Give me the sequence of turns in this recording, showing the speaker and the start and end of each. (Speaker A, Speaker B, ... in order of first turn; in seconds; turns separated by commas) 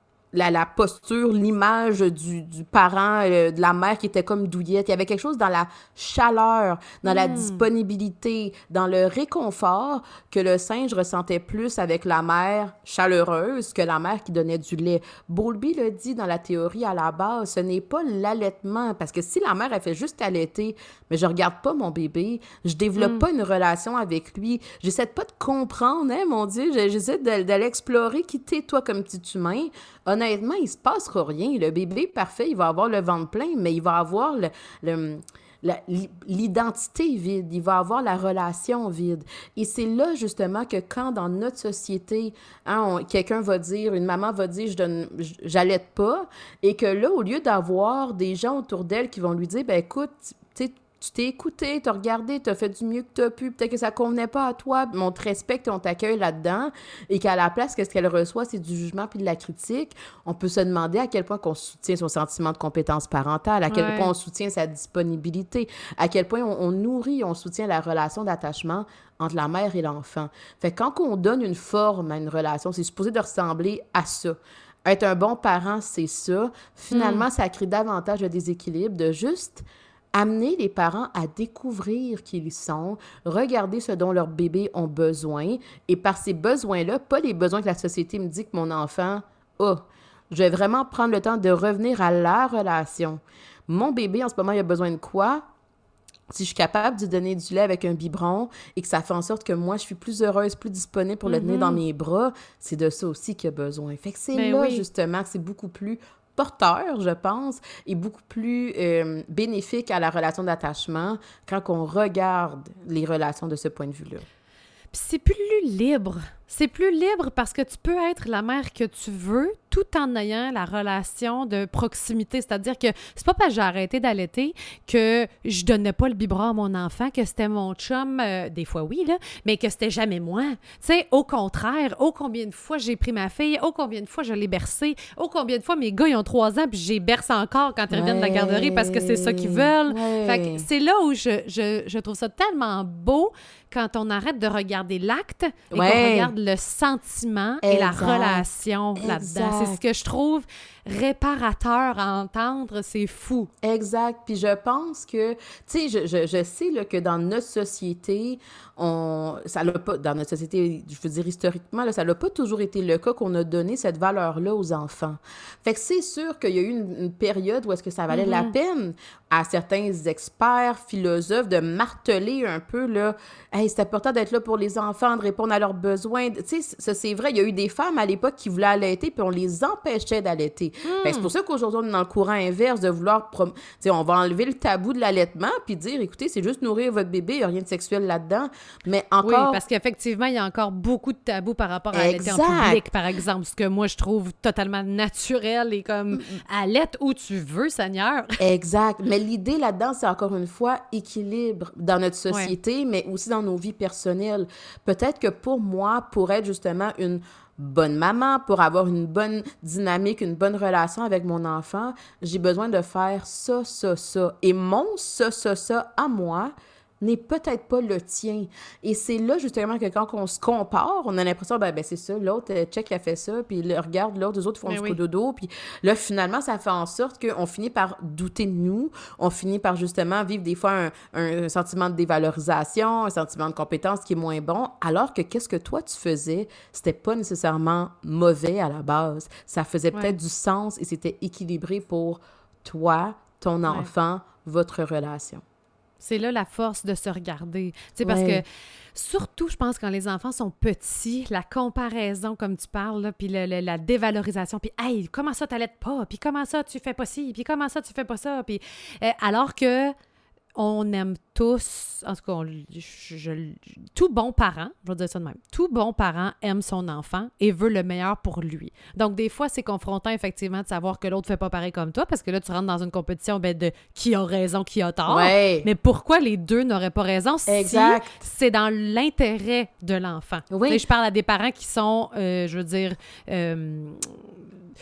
Speaker A: 0.3-95.4, Speaker B: 7.0-7.7, Speaker B: 23.0-23.2, Speaker B: 63.7-64.1, Speaker B: 76.9-77.2, Speaker A: 96.3-114.2, Speaker B: 101.2-101.8, Speaker B: 104.3-104.8, Speaker B: 114.9-153.5, Speaker A: 137.9-140.6, Speaker A: 145.7-146.3, Speaker A: 147.6-148.4, Speaker A: 149.0-149.8, Speaker A: 153.6-189.6, Speaker B: 168.1-168.5, Speaker B: 180.8-181.3, Speaker B: 189.2-198.4, Speaker A: 191.9-192.8, Speaker A: 198.4-245.4, Speaker B: 224.7-225.0, Speaker B: 246.0-259.9, Speaker A: 248.0-248.4, Speaker B: 260.6-284.4, Speaker A: 275.1-275.7, Speaker A: 277.5-278.1, Speaker A: 280.5-280.8